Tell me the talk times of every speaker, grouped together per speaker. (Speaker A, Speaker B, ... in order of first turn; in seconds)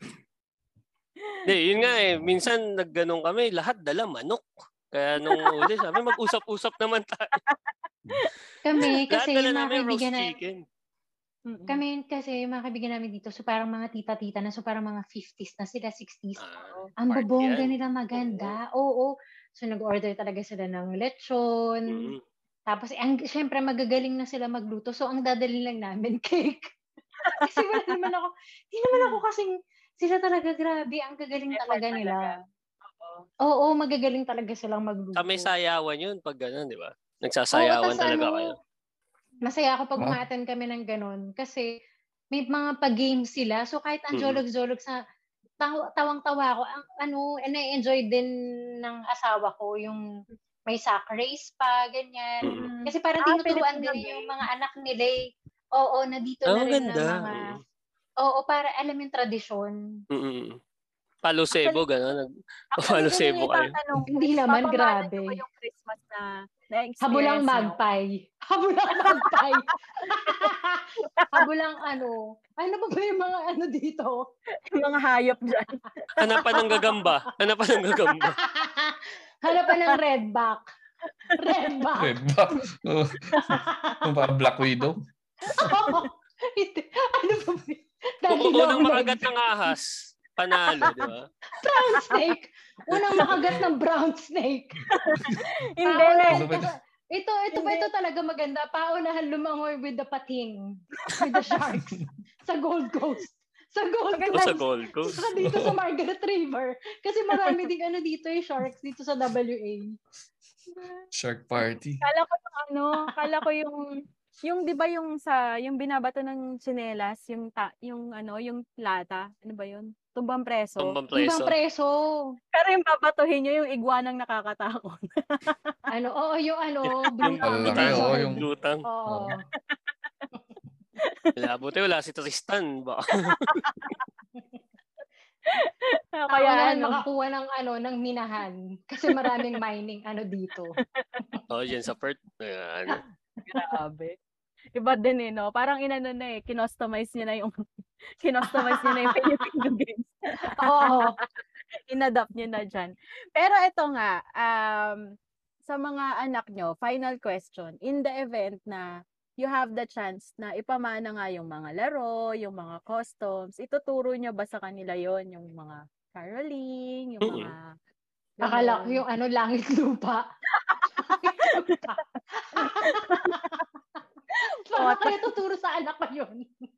Speaker A: 1.2-2.0, 5.2-6.3, 7.5-8.9, 11.5-11.8, 16.6-16.9, 27.2-27.9, 28.9-29.2, 31.5-33.3, 52.5-54.4, 61.5-61.8, 62.7-67.8, 69.0-70.5, 71.1-71.4, 74.7-76.8, 79.5-80.0, 81.3-81.8, 83.3-83.6, 85.5-86.1, 90.8-91.0, 91.7-92.2, 93.1-93.6, 94.9-96.4, 97.5-97.9, 101.0-101.5, 104.1-104.6, 110.7-111.0, 112.0-113.8, 114.4-121.0, 122.5-125.7, 127.3-128.1, 131.0-131.4, 133.2-134.0, 135.5-137.0, 139.1-139.5, 140.9-141.3, 143.5-144.2, 144.7-147.5, 148.2-155.1, 155.7-158.9, 159.4-167.7, 168.4-169.0, 170.6-172.0, 172.6-173.6, 174.7-175.3
Speaker B: 1.4-7.3, 9.1-10.6, 16.4-18.6, 21.9-22.2, 35.1-38.5, 44.1-44.4, 52.4-52.7, 56.5-57.6, 60.1-60.6, 61.2-62.3, 62.8-63.7, 76.2-78.4, 88.3-91.3, 104.3-105.2, 120.8-121.5, 127.2-128.8, 131.4-133.6, 141.5-143.0, 167.2-167.5
Speaker C: 2.1-2.4, 82.0-83.4, 84.0-85.0, 96.3-96.7, 105.3-105.8, 111.1-112.0, 127.5-128.5, 129.1-129.3
Speaker D: 8.6-10.3, 11.7-16.4, 17.0-22.1, 22.7-26.7, 27.3-32.3, 33.4-35.5, 37.5-38.5, 39.4-41.7, 42.3-45.0, 45.6-48.3, 48.8-50.0, 50.7-55.2, 55.8-57.5, 58.2-59.8, 64.1-65.4, 67.0-74.2, 78.4-80.6, 81.4-82.2, 83.5-84.3, 85.5-89.3, 91.6-94.8, 95.8-110.0, 121.1-122.0, 125.9-129.4, 136.3-140.7, 142.9-143.7, 148.5-149.4, 150.6-151.2, 168.4-170.2, 170.9-173.6, 174.7-176.5